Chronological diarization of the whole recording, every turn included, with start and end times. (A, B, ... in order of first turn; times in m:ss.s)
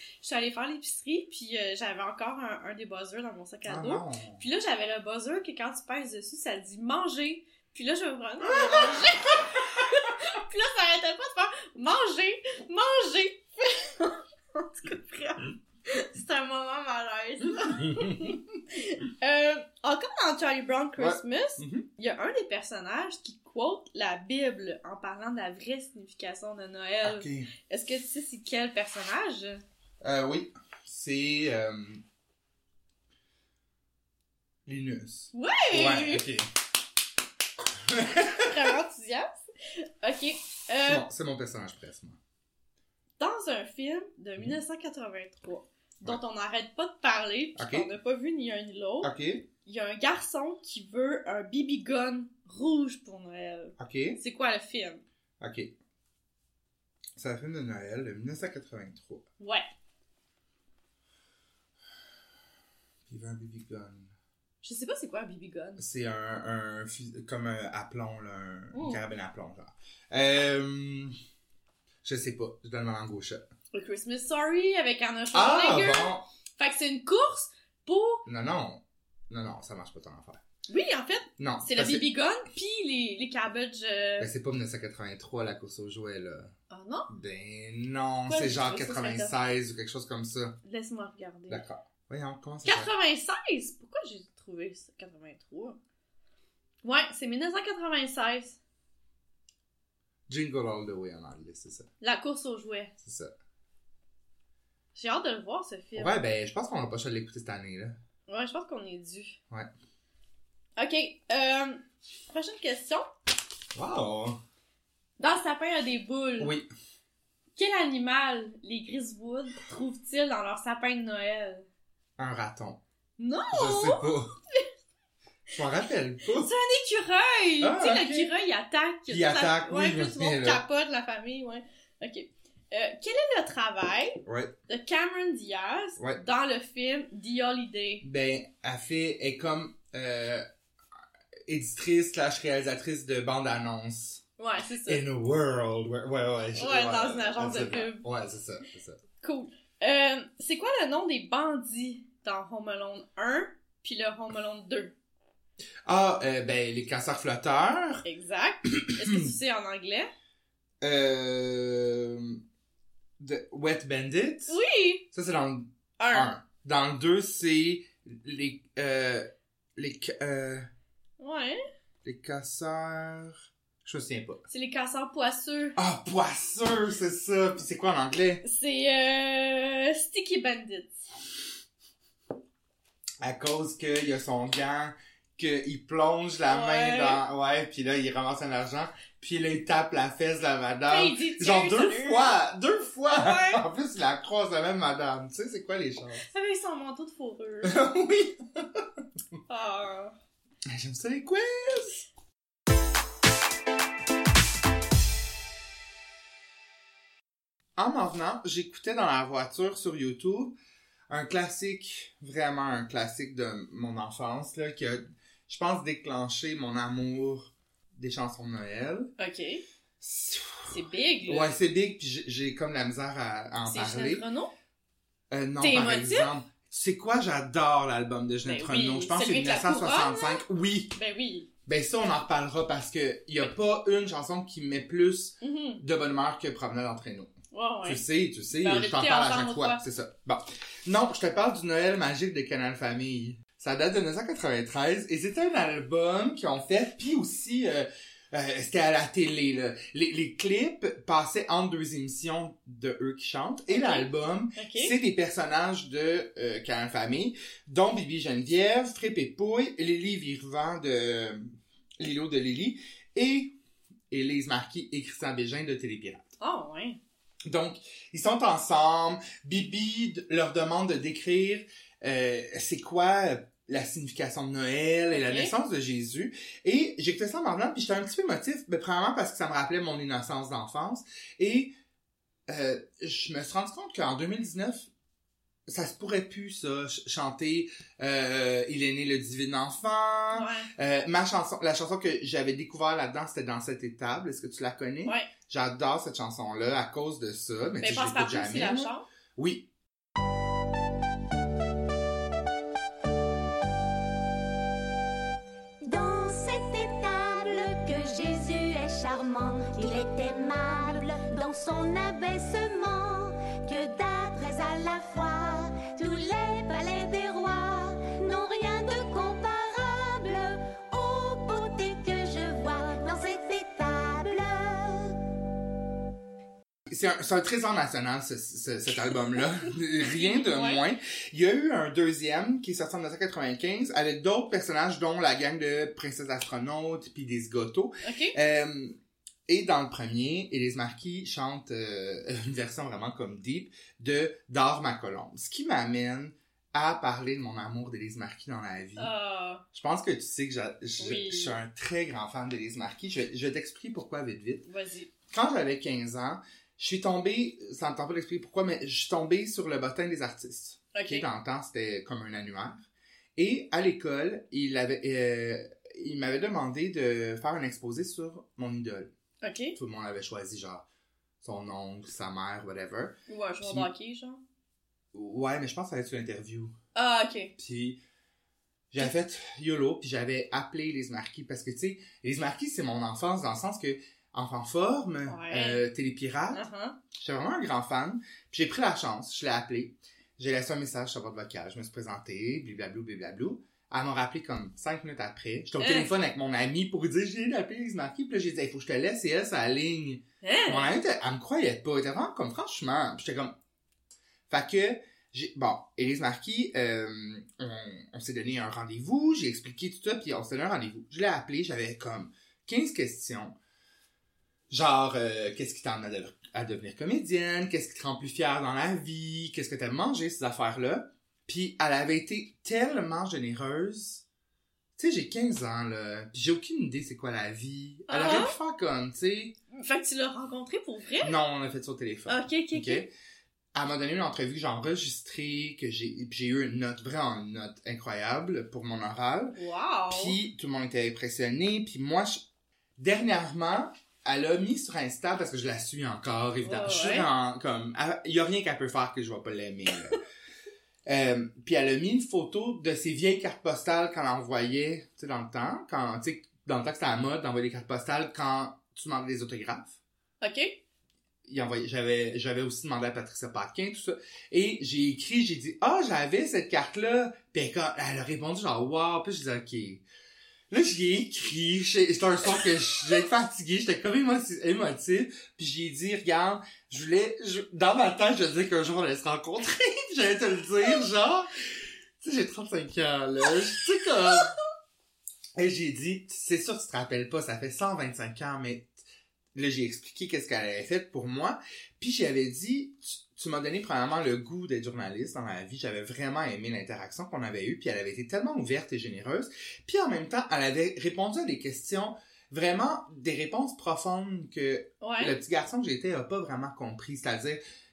0:00.2-0:29.6 A
0:03.7-0:04.4 B
0:08.4-0:09.1 B
0:17.8-0:18.4 B
0:21.0-0:21.9 B
0:27.0-0:27.5 B
0:30.0-0:32.0 B
0:34.6-0:36.5 B
0:35.3-0:36.2 A
0:37.8-0:38.7 B
0:38.4-0:41.0 A
0:40.8-0:42.2 B
0:43.2-0:49.1 A
0:47.6-0:47.9 B
0:49.0-0:49.5 B
0:49.6-0:55.0 A
0:53.8-0:54.2 B
0:55.4-0:55.7 B
0:57.2-0:59.2 B
0:59.4-0:59.6 A
1:03.1-1:04.1 B
1:04.6-1:05.8 A
1:05.8-1:11.1 B
1:08.7-1:09.0 A
1:12.0-1:13.4 B
1:13.7-1:18.2 A
1:15.3-1:16.3 B
1:18.2-1:20.4 B
1:20.7-1:24.3 A
1:21.4-1:22.0 B
1:24.2-1:26.5 B
1:26.7-1:27.1 A
1:27.1-1:30.6 B
1:28.3-1:29.3 A
1:30.6-1:31.6 A
1:31.5-1:32.9 B
1:32.6-1:35.8 A
1:36.8-1:38.6 A
1:40.3-1:41.9 B
1:42.0-1:42.9 A
1:43.0-1:43.3 B
1:44.9-1:46.1 A
1:45.9-1:48.0 B
1:48.3-1:49.4 A
1:50.8-1:53.1 A
1:53.7-1:54.4 B
1:55.2-1:56.5 A
1:56.4-1:56.7 B
1:57.6-2:01.7 A
2:02.2-2:02.8 B
2:03.2-2:04.7 A
2:03.5-2:04.3 B
2:05.5-2:06.5 B
2:06.3-2:18.0 A
2:07.6-2:08.3 B
2:09.1-2:10.6 B
2:14.2-2:14.5 B
2:18.0-2:20.4 B
2:21.5-2:24.2 B
2:24.4-2:25.0 A
2:24.8-2:29.0 B
2:26.6-2:28.0 A
2:29.2-2:34.9 A
2:35.8-2:38.0 B
2:38.0-2:40.1 A
2:38.6-2:39.3 B
2:40.8-2:42.4 B
2:43.2-2:44.6 B
2:44.5-2:45.0 A
2:45.1-2:50.7 B
2:46.0-2:46.3 A
2:51.2-2:51.6 A
2:52.0-2:54.4 B
2:54.5-2:55.8 A
2:55.8-2:58.4 B
2:58.4-3:01.0 A
3:03.2-3:16.2 B
3:06.5-3:07.2 A
3:10.9-3:12.3 A
3:13.1-3:13.6 A
3:16.2-3:17.8 A
3:17.6-3:19.0 B
3:19.5-3:20.1 A
3:20.7-3:22.0 B
3:27.8-3:30.6 B
3:31.1-3:39.1 B
3:39.2-3:39.6 A
3:40.0-3:44.2 B
3:40.7-3:41.5 A
3:43.6-3:44.5 A
3:45.3-3:50.9 B
3:45.6-3:46.3 A
3:48.4-3:50.4 A
3:50.9-3:51.5 A
3:51.6-3:57.3 B
3:55.4-3:55.8 A
3:57.5-3:58.0 A
3:57.8-4:23.5 B
3:58.6-3:59.8 A
4:13.7-4:14.9 A
4:24.1-4:26.3 B
4:26.4-4:27.0 A
4:27.4-4:41.7 B
4:35.1-4:35.5 A
4:42.5-4:44.9 B
4:45.7-4:59.7 B
4:50.3-4:50.7 A
4:57.8-4:59.0 A
5:05.8-5:25.2 C
5:26.9-5:49.1 B
5:30.1-5:30.8 A
5:38.0-5:38.4 A
5:49.0-5:49.6 A
5:49.7-5:54.6 B
5:51.0-5:51.6 A
5:54.6-5:55.1 A
5:55.3-6:02.8 B
6:00.9-6:01.2 A
6:03.4-6:09.1 B
6:09.4-6:09.8 A
6:09.8-6:10.8 B
6:11.4-6:13.9 B
6:13.3-6:14.4 A
6:15.1-6:16.7 B
6:16.9-6:17.5 A
6:17.6-6:18.0 B
6:18.9-6:26.6 B
6:25.2-6:25.8 A
6:26.5-6:27.0 A
6:27.1-6:43.5 B
6:35.8-6:36.1 A
6:40.4-6:40.9 A
6:44.5-6:53.6 B
6:54.7-7:04.2 B
7:05.0-7:09.6 B
7:08.1-7:08.5 A
7:09.7-7:11.3 A
7:11.2-7:13.1 B
7:12.3-7:13.0 A
7:13.7-7:19.6 B
7:19.5-7:20.4 A
7:20.1-7:22.4 B
7:23.0-7:30.2 B
7:26.6-7:27.3 A
7:31.0-7:40.0 B
7:40.4-7:40.8 A
7:41.4-7:50.0 B
7:50.7-8:01.5 B
8:02.2-8:04.5 B
8:05.6-8:09.0 B
8:09.5-8:27.6 B
8:25.0-8:25.3 A